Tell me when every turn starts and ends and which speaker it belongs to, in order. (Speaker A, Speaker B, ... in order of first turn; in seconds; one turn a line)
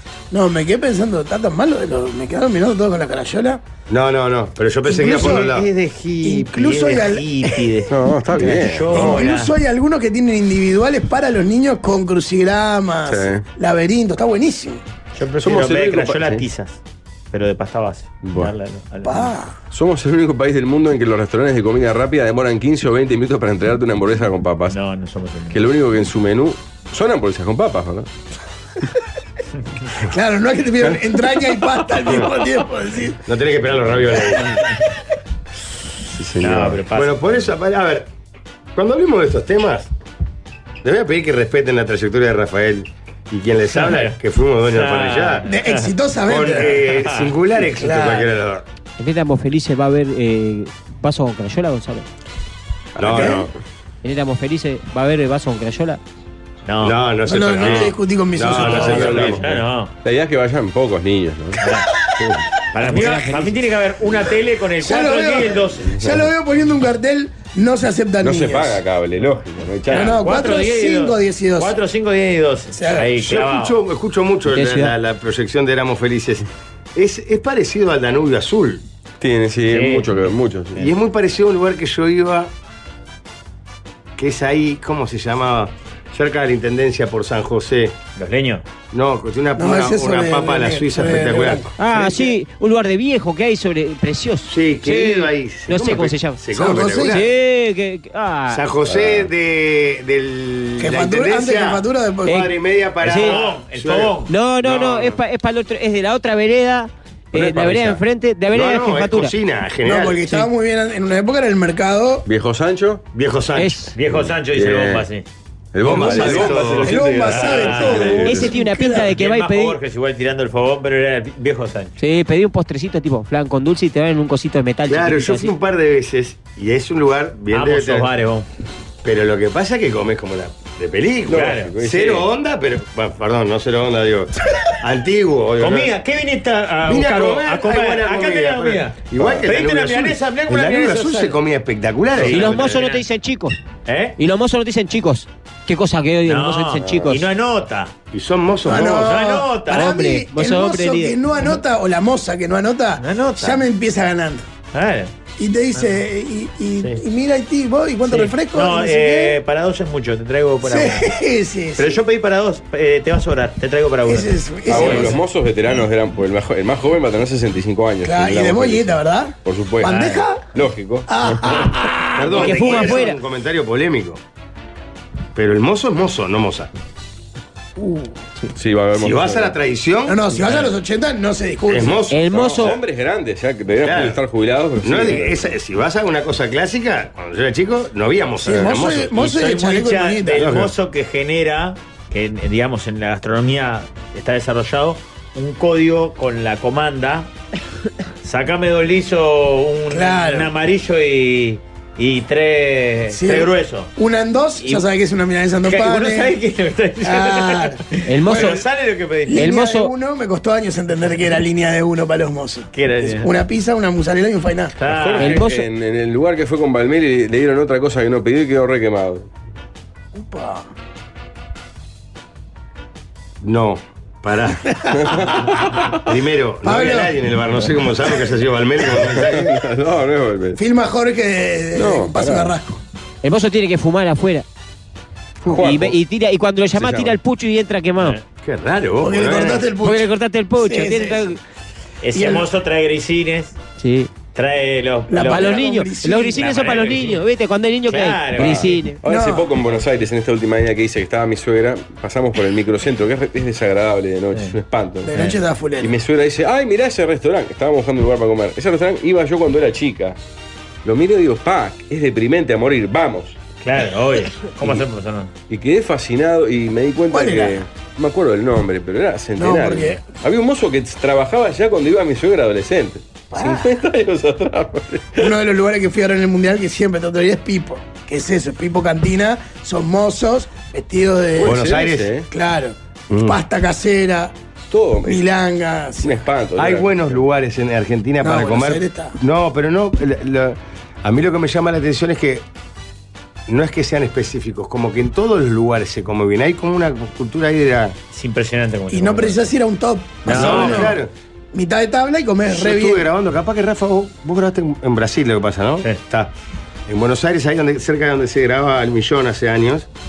Speaker A: 0.3-3.6
Speaker B: 3.9-5.7
Speaker A: 4.8-5.5
Speaker C: 5.1-9.5
Speaker A: 6.2-7.7
Speaker D: 7.9-9.2
Speaker A: 8.9-14.8
Speaker D: 13.1-13.4
Speaker C: 15.2-16.8
Speaker D: 15.4-16.4
Speaker C: 17.3-19.3
Speaker D: 18.2-18.5
Speaker A: 19.0-19.6
Speaker D: 19.7-24.8
Speaker C: 24.7-25.7
Speaker D: 25.5-28.1
Speaker A: 30.1-33.2
Speaker B: 33.3-34.6
Speaker D: 36.2-36.8
Speaker C: 36.4-37.4
Speaker B: 36.5-38.1
Speaker B: 38.8-39.9
Speaker B: 40.8-45.5
Speaker C: 43.7-44.2
Speaker C: 44.7-45.9
Speaker A: 45.5-46.8
Speaker B: 46.3-48.6
Speaker C: 46.8-47.3
Speaker A: 47.6-48.3
Speaker E: 49.0-52.1
Speaker B: 53.0-53.5
Speaker D: 53.0-53.3
Speaker A: 53.1-53.5
Speaker E: 54.0-56.0
Speaker C: 56.7-57.0
Speaker B: 56.8-59.4
Speaker A: 57.2-59.4
Speaker C: 58.5-59.9
Speaker D: 58.5-61.6
Speaker C: 61.6-61.9
Speaker C: 62.7-66.0
Speaker E: 62.8-63.5
Speaker A: 64.8-68.8
Speaker D: 68.2-70.2
Speaker A: 69.9-71.8
Speaker C: 69.9-73.8
Speaker A: 72.7-73.1
Speaker B: 73.1-78.8
Speaker E: 74.5-75.0
Speaker D: 79.2-80.9
Speaker C: 79.7-80.3
Speaker B: 80.8-82.5
Speaker B: 84.2-88.0
Speaker C: 88.2-88.6
Speaker B: 88.9-92.2
Speaker A: 89.6-91.7
Speaker E: 91.8-96.4
Speaker B: 94.5-97.3
Speaker A: 96.5-97.2
Speaker E: 97.0-98.6
Speaker B: 98.5-105.2
Speaker D: 98.9-99.3
Speaker A: 100.8-102.5
Speaker E: 102.3-103.4
Speaker C: 103.1-104.3
Speaker E: 104.3-109.3
Speaker D: 107.4-108.0
Speaker B: 107.4-107.9
Speaker B: 108.5-110.2
Speaker A: 109.8-112.3
Speaker D: 112.3-113.0
Speaker B: 113.1-113.9
Speaker E: 113.6-113.9
Speaker C: 113.9-115.3
Speaker D: 114.1-115.1
Speaker D: 115.7-118.5
Speaker B: 115.8-117.0
Speaker C: 116.1-118.3
Speaker A: 116.8-119.1
Speaker E: 118.2-119.8
Speaker C: 119.1-122.0
Speaker E: 122.0-125.5
Speaker B: 124.9-128.1
Speaker C: 127.5-128.5
Speaker B: 129.0-135.9
Speaker D: 131.3-132.3
Speaker C: 131.3-131.7
Speaker C: 135.6-141.4
Speaker B: 136.9-142.7
Speaker C: 142.2-143.0
Speaker E: 142.2-143.6
Speaker C: 143.9-144.2
Speaker E: 144.2-147.3
Speaker C: 146.3-147.9
Speaker B: 148.1-149.2
Speaker A: 148.7-154.5
Speaker C: 148.7-149.9
Speaker E: 149.7-151.2
Speaker C: 153.0-153.7
Speaker C: 154.7-155.1
Speaker A: 155.4-159.4
Speaker C: 158.1-161.1
Speaker A: 160.6-162.0
Speaker C: 161.8-165.1
Speaker A: 164.1-165.2
Speaker D: 164.7-171.7
Speaker A: 168.0-170.5
Speaker A: 171.1-173.0
Speaker B: 172.2-174.2
Speaker E: 172.3-173.2
Speaker B: 175.3-176.7
Speaker A: 177.8-178.1
Speaker D: 178.5-179.6
Speaker B: 178.9-180.2
Speaker A: 180.1-182.0
Speaker C: 180.4-180.7
Speaker B: 181.7-182.6
Speaker E: 182.1-182.8
Speaker D: 182.3-185.5
Speaker B: 183.8-184.2
Speaker B: 184.8-189.2
Speaker A: 188.4-190.5
Speaker C: 189.1-197.3
Speaker B: 190.3-190.7
Speaker C: 198.2-203.9
Speaker A: 199.9-200.5
Speaker A: 203.1-206.4
Speaker C: 204.6-204.8
Speaker C: 205.7-209.5
Speaker A: 207.0-208.6
Speaker E: 208.1-208.6
Speaker A: 209.3-214.8
Speaker E: 209.3-209.9
Speaker C: 212.7-213.3
Speaker C: 214.8-215.5
Speaker D: 215.0-219.3
Speaker E: 215.2-215.7
Speaker A: 220.1-220.7
Speaker B: 223.4-224.8
Speaker D: 224.9-226.0
Speaker B: 226.1-229.6
Speaker A: 226.6-227.2
Speaker D: 229.1-230.6
Speaker A: 230.6-232.8
Speaker D: 231.8-232.5
Speaker E: 233.2-234.4
Speaker D: 235.5-236.0
Speaker E: 235.5-238.2
Speaker D: 236.8-237.2
Speaker B: 238.4-239.7
Speaker A: 239.0-241.4
Speaker E: 239.8-241.4
Speaker C: 242.0-243.6
Speaker A: 242.1-242.5
Speaker E: 243.8-244.1
Speaker C: 244.3-245.6
Speaker A: 245.1-246.5
Speaker E: 245.2-249.0
Speaker C: 246.4-247.2
Speaker C: 247.9-248.8
Speaker D: 248.4-255.1
Speaker A: 249.0-249.6
Speaker A: 255.0-256.0
Speaker D: 255.8-260.2
Speaker D: 260.8-263.4
Speaker C: 263.6-265.3
Speaker D: 265.5-275.3
Speaker A: 267.1-267.6
Speaker A: 269.4-270.0
Speaker A: 273.3-273.8
Speaker A: 275.2-281.7
Speaker D: 281.4-282.3
Speaker B: 281.4-282.1
Speaker A: 282.3-284.4
Speaker B: 283.1-283.4
Speaker D: 284.7-285.2
Speaker A: 285.0-286.1
Speaker D: 286.0-287.2
Speaker B: 286.6-292.4
Speaker A: 288.2-289.2
Speaker B: 293.5-298.0
Speaker C: 298.1-299.4
Speaker A: 298.9-301.0
Speaker C: 300.2-300.9
Speaker B: 300.3-301.1
Speaker A: 301.5-303.1
Speaker B: 302.5-306.3
Speaker B: 306.9-309.9